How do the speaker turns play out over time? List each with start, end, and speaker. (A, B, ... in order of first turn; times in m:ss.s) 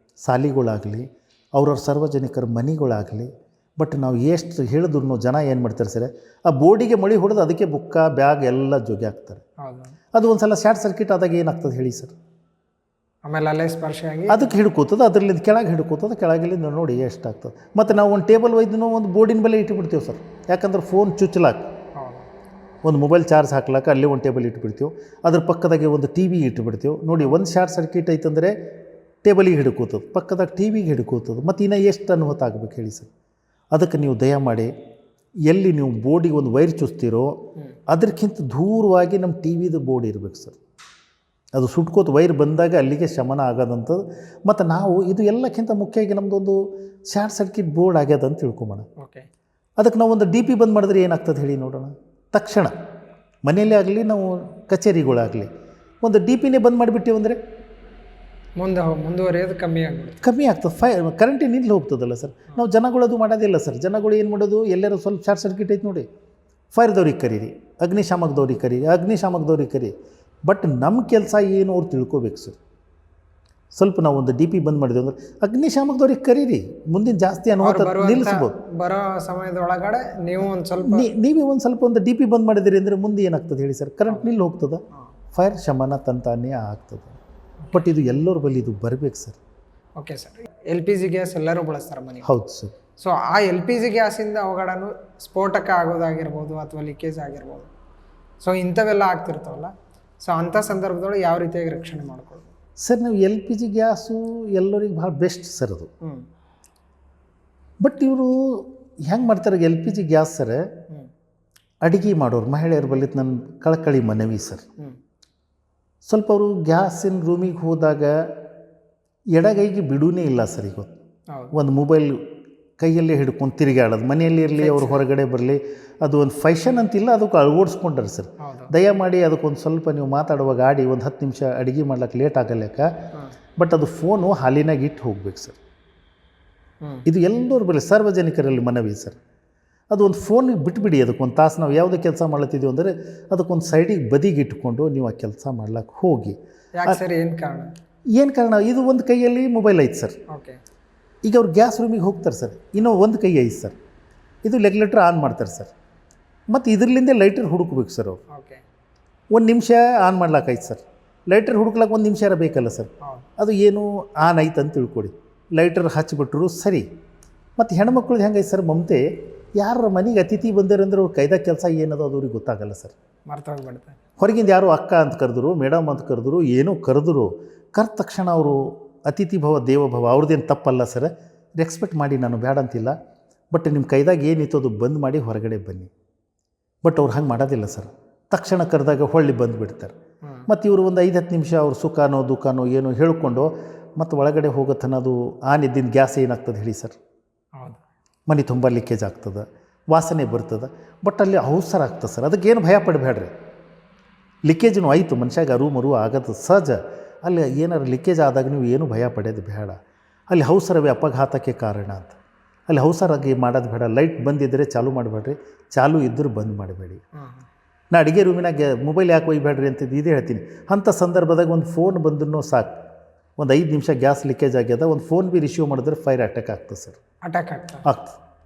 0:00.2-0:09.4 A
0:09.6-0:10.0 B
0:10.1-0:12.1 A
0:13.2-0:14.6 B
0:14.3-0:21.7 A
0:22.0-0:22.3 B
0:22.8-0:28.5 A
0:29.2-0:33.1 A
0:33.7-0:34.7 A
0:35.5-0:37.4 A
0:37.9-0:40.6 A
0:41.6-0:48.9 A
0:49.0-0:49.3 B
0:49.8-0:52.8 A
0:53.4-0:55.5 A
0:56.0-0:57.4 A
0:58.6-1:00.2 B
1:00.2-1:06.1 A
1:06.7-1:09.9 A
1:10.5-1:12.6 A
1:13.8-1:18.5 A
1:17.6-1:21.1 B
1:20.8-1:27.2 A
1:27.7-1:29.4 A
1:30.0-1:32.3 B
1:32.2-1:32.7 A
1:33.0-1:37.7 B
1:38.4-1:42.5 B
1:42.8-1:45.9 A
1:47.8-1:50.6 A
1:51.8-1:54.6 A
1:56.0-1:58.3 A
1:59.4-2:00.9 A
2:01.5-2:02.2 A
2:02.8-2:12.9 A
2:04.6-2:05.0 B
2:08.4-2:08.7 B
2:13.6-2:15.6 A
2:17.1-2:19.2 A
2:19.9-2:27.0 A
2:26.8-2:27.7 B
2:28.2-2:30.2 A
2:30.3-2:30.6 B
2:31.2-2:33.8 A
2:34.4-2:35.7 A
2:36.5-2:38.2 A
2:38.3-2:38.6 B
2:39.3-2:46.9 A
2:47.6-2:49.0 A
2:49.6-2:52.9 A
2:53.3-2:54.0 B
2:54.2-3:02.9 A
3:03.5-3:05.9 A
3:06.8-3:09.9 A
3:10.5-3:17.0 A
3:18.3-3:23.3 A
3:24.5-3:37.0 A
3:37.2-3:37.4 B
3:37.9-3:42.7 A
3:43.4-3:47.0 A
3:47.3-3:47.9 B
3:47.9-3:48.2 A